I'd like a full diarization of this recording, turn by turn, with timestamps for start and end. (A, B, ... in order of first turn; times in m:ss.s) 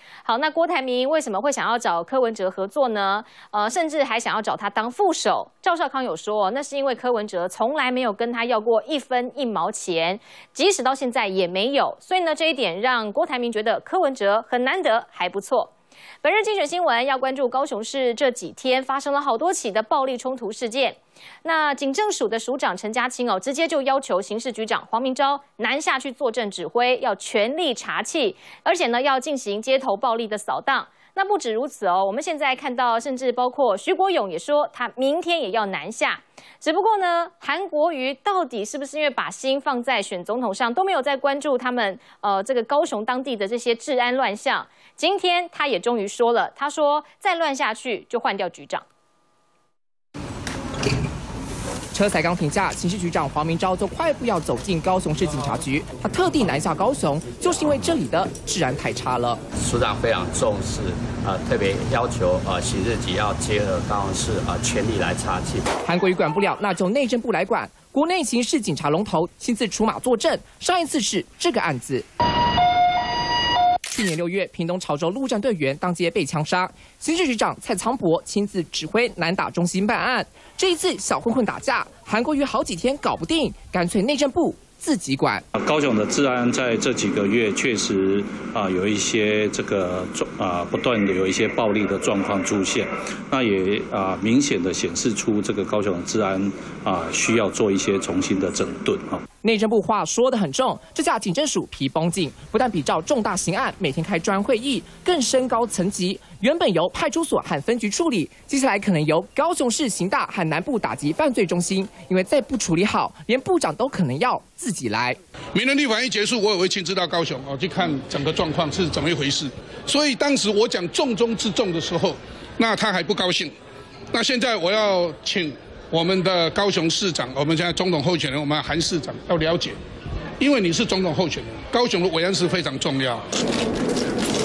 0:00.2-0:15.7 A
0:16.2-0:48.8 A
0:51.9-0:59.4 B
0:59.6-1:05.6 C
1:05.8-1:12.0 B
1:13.9-1:25.4 B
1:25.5-1:39.2 D
1:39.4-1:55.2 B
1:55.5-2:03.5 E
2:04.1-2:09.8 E
2:10.4-2:13.2 E